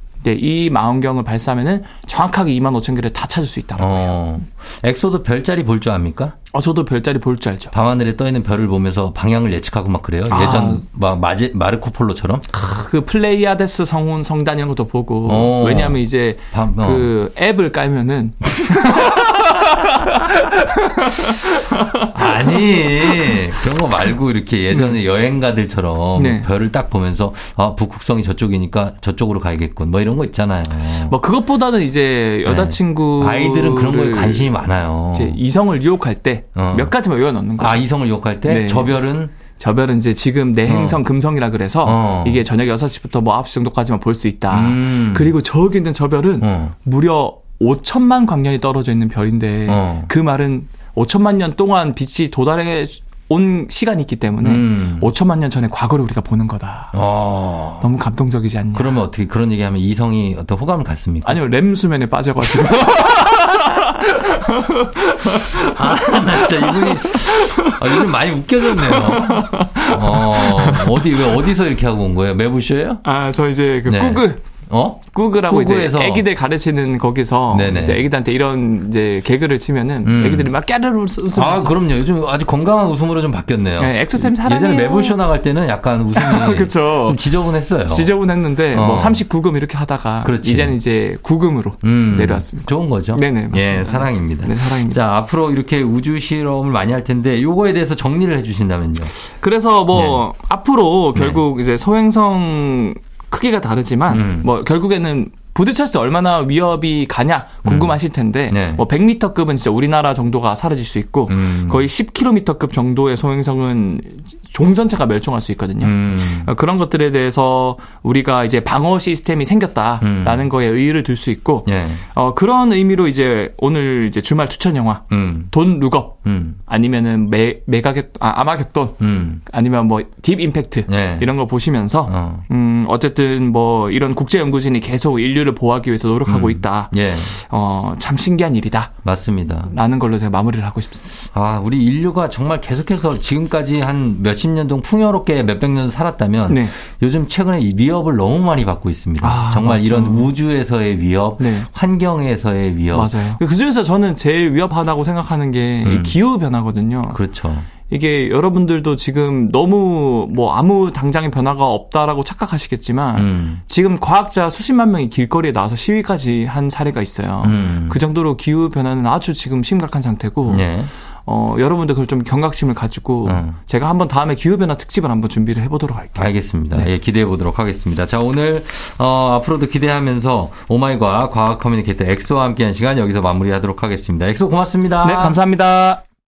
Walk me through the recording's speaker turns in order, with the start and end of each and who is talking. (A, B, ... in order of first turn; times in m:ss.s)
0:00.2-0:04.2 A
0:03.8-0:06.3 B
0:06.5-0:07.7 A
0:07.7-0:12.5 B
0:10.3-0:10.8 A
0:12.5-0:23.4 A
0:15.3-0:17.1 B
0:22.1-0:31.2 B
0:24.7-0:25.0 A
0:26.2-0:26.5 A
0:30.9-0:34.5 A
0:32.4-0:35.4 B
0:35.1-0:37.9 A
0:36.6-0:36.9 B
0:37.6-0:39.3 B
0:38.4-0:39.0 A
0:39.6-0:57.0 A
0:40.7-0:41.0 B
0:41.8-0:42.4 B
0:44.5-0:45.3 B
0:46.4-0:46.7 B
0:49.7-0:50.1 B
0:54.4-0:55.1 B
0:56.9-0:57.9 B
0:57.8-0:59.0 A
0:58.7-1:01.4 B
1:01.2-1:07.8 A
1:05.5-1:13.0 B
1:08.7-1:11.3 A
1:13.0-1:14.4 A
1:13.9-1:16.2 B
1:15.1-1:21.8 A
1:17.5-1:18.0 B
1:20.0-1:20.5 B
1:21.3-1:28.1 B
1:23.8-1:25.2 A
1:26.1-1:27.2 A
1:27.9-1:35.0 A
1:28.7-1:29.2 B
1:30.2-1:30.8 B
1:31.8-1:39.1 B
1:39.2-2:18.9 A
1:39.9-1:40.2 B
1:41.2-1:41.4 B
1:44.1-1:44.5 B
1:47.6-1:47.9 B
1:48.5-1:48.8 B
1:51.3-1:51.9 B
1:55.8-1:56.5 B
2:00.0-2:00.5 B
2:01.7-2:02.0 B
2:05.1-2:05.5 B
2:06.2-2:06.6 B
2:09.0-2:09.4 B
2:10.9-2:11.3 B
2:12.1-2:12.5 B
2:16.3-2:17.4 B
2:19.0-2:19.7 B
2:19.7-2:21.2 A
2:21.3-2:33.2 B
2:26.5-2:26.7 A
2:29.2-2:30.3 A
2:31.4-2:31.7 A
2:32.9-2:37.2 A
2:35.8-2:36.2 B
2:37.1-2:37.7 B
2:37.9-2:50.7 A
2:43.2-2:43.6 B
2:47.4-2:48.0 B
2:50.5-2:50.9 B
2:51.2-2:56.9 A
2:53.2-2:53.6 B
2:56.2-3:05.4 B
3:05.0-3:06.0 A